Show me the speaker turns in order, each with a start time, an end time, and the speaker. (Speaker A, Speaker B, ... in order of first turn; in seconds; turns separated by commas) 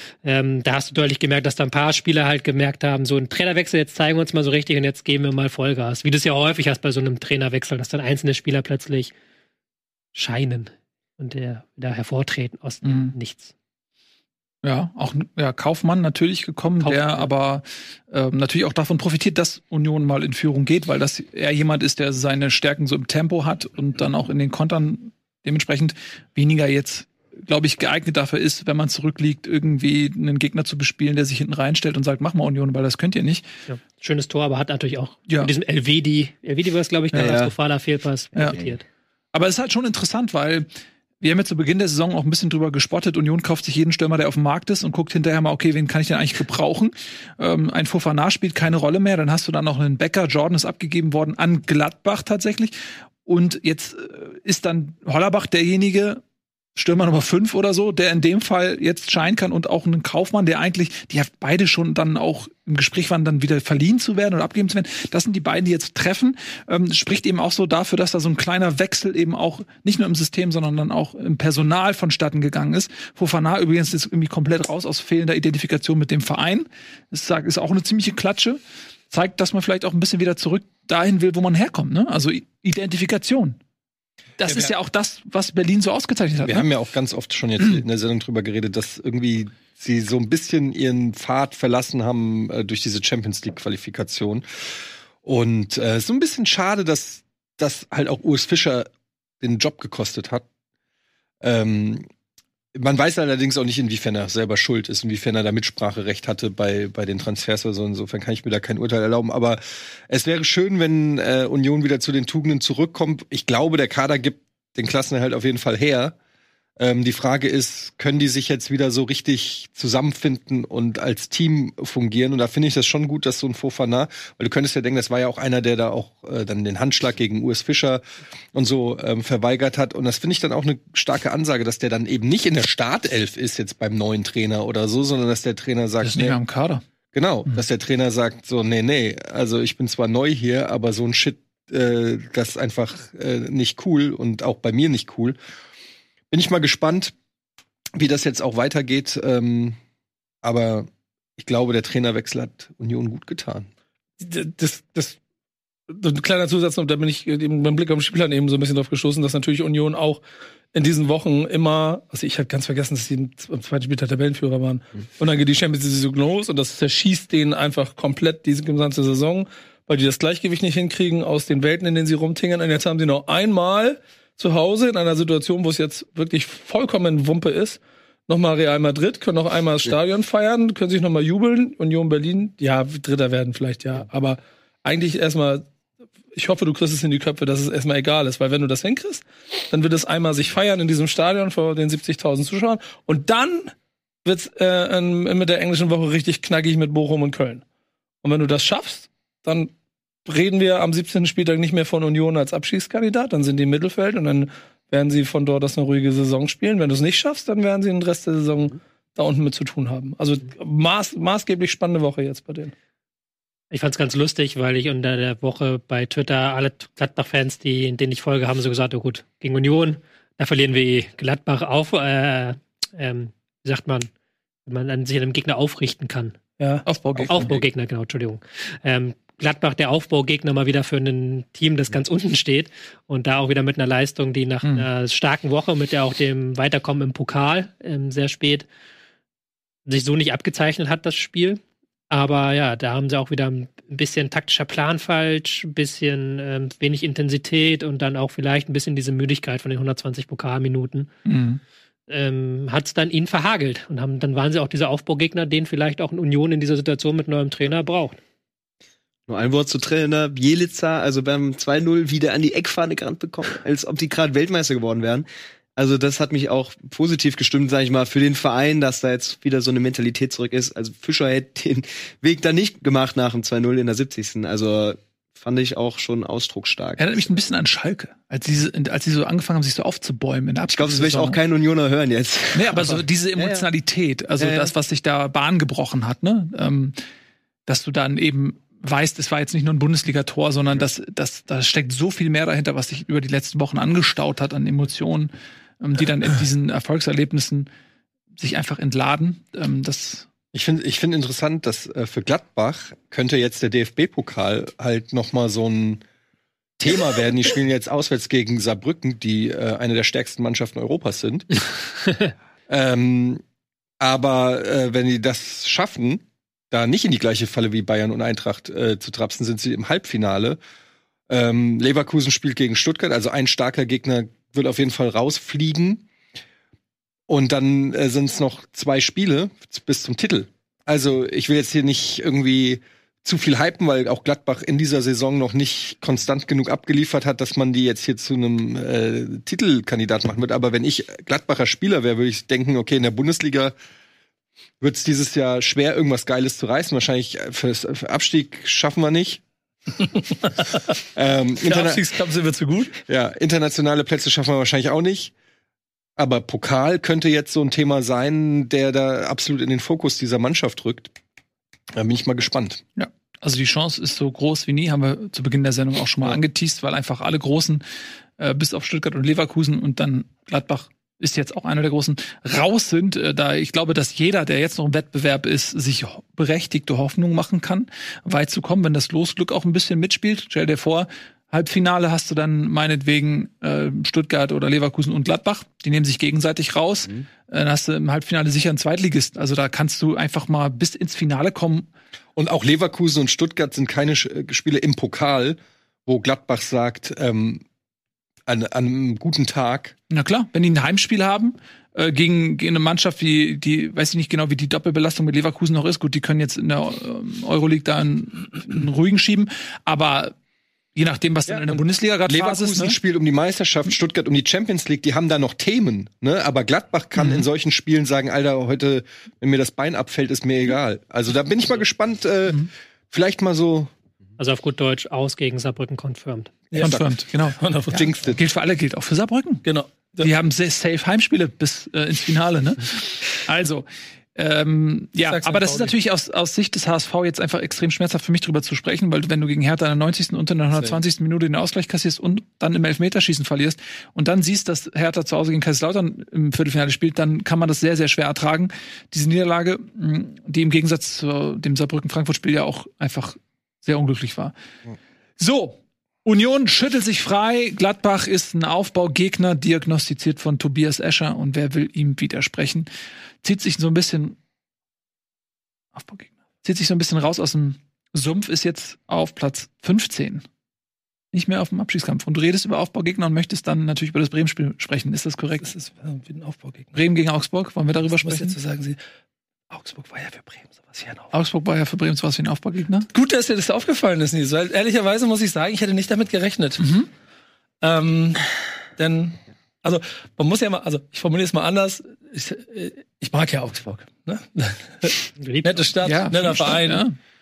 Speaker A: 0.2-9.1, Speaker A: 10.1-13.5, Speaker B: 12.8-13.1, Speaker B: 14.6-33.5, Speaker A: 16.8-17.3, Speaker A: 33.7-38.8, Speaker C: 37.1-37.5, Speaker C: 38.4-38.8, Speaker B: 39.3-40.7, Speaker B: 41.2-52.7, Speaker B: 53.2-56.2, Speaker B: 56.8-78.6, Speaker B: 79.1-83.6, Speaker B: 84.4-86.7, Speaker D: 84.4-84.7, Speaker D: 86.4-94.4, Speaker D: 95.2-98.9, Speaker D: 99.4-100.5, Speaker D: 101.4-102.1, Speaker D: 102.7-116.2, Speaker D: 116.8-128.0, Speaker D: 128.5-136.4, Speaker B: 136.0-136.8, Speaker D: 137.1-145.4, Speaker D: 146.3-147.1, Speaker D: 147.9-149.8, Speaker D: 150.4-153.7, Speaker E: 154.2-155.2, Speaker E: 155.9-185.7, Speaker E: 186.3-197.6, Speaker E: 198.2-199.7, Speaker E: 200.3-212.7, Speaker A: 213.7-224.1, Speaker A: 224.7-226.4, Speaker E: 226.6-227.5, Speaker B: 226.8-227.6, Speaker A: 227.3-238.7, Speaker A: 239.9-251.1, Speaker B: 251.3-251.6, Speaker A: 252.1-258.2, Speaker C: 259.3-265.3, Speaker C: 265.8-277.0, Speaker B: 277.0-281.4, Speaker C: 280.7-283.6, Speaker B: 282.5-286.9, Speaker C: 284.4-284.7, Speaker B: 287.7-297.7, Speaker B: 298.4-300.3, Speaker D: 300.5-306.0, Speaker D: 306.8-311.5, Speaker D: 312.7-313.4, Speaker D: 314.0-320.6, Speaker D: 321.3-326.1, Speaker D: 327.3-343.7, Speaker D: 344.8-349.4, Speaker E: 350.1-350.8, Speaker D: 351.1-352.0, Speaker E: 351.6-353.0, Speaker D: 353.1-355.3, Speaker D: 356.2-361.1, Speaker D: 361.9-362.8, Speaker B: 363.0-367.8, Speaker B: 368.4-391.9, Speaker D: 392.4-397.6, Speaker D: 398.5-399.9, Speaker B: 400.1-410.3, Speaker B: 410.9-412.9, Speaker D: 412.3-423.9, Speaker B: 417.2-417.4, Speaker A: 424.4-426.6, Speaker D: 426.7-427.1, Speaker B: 426.8-427.6, Speaker E: 427.6-428.1, Speaker D: 427.9-428.4, Speaker B: 428.2-454.5, Speaker E: 429.6-430.3, Speaker E: 435.2-435.9, Speaker B: 455.4-462.9, Speaker B: 463.4-464.4, Speaker B: 465.9-470.4, Speaker B: 471.3-475.7, Speaker E: 475.6-476.9, Speaker B: 476.9-478.6, Speaker E: 478.2-479.0, Speaker E: 479.7-481.3, Speaker B: 481.3-483.1, Speaker E: 483.1-486.8, Speaker B: 486.8-487.1, Speaker E: 487.8-497.1, Speaker A: 495.4-495.9, Speaker B: 496.0-497.1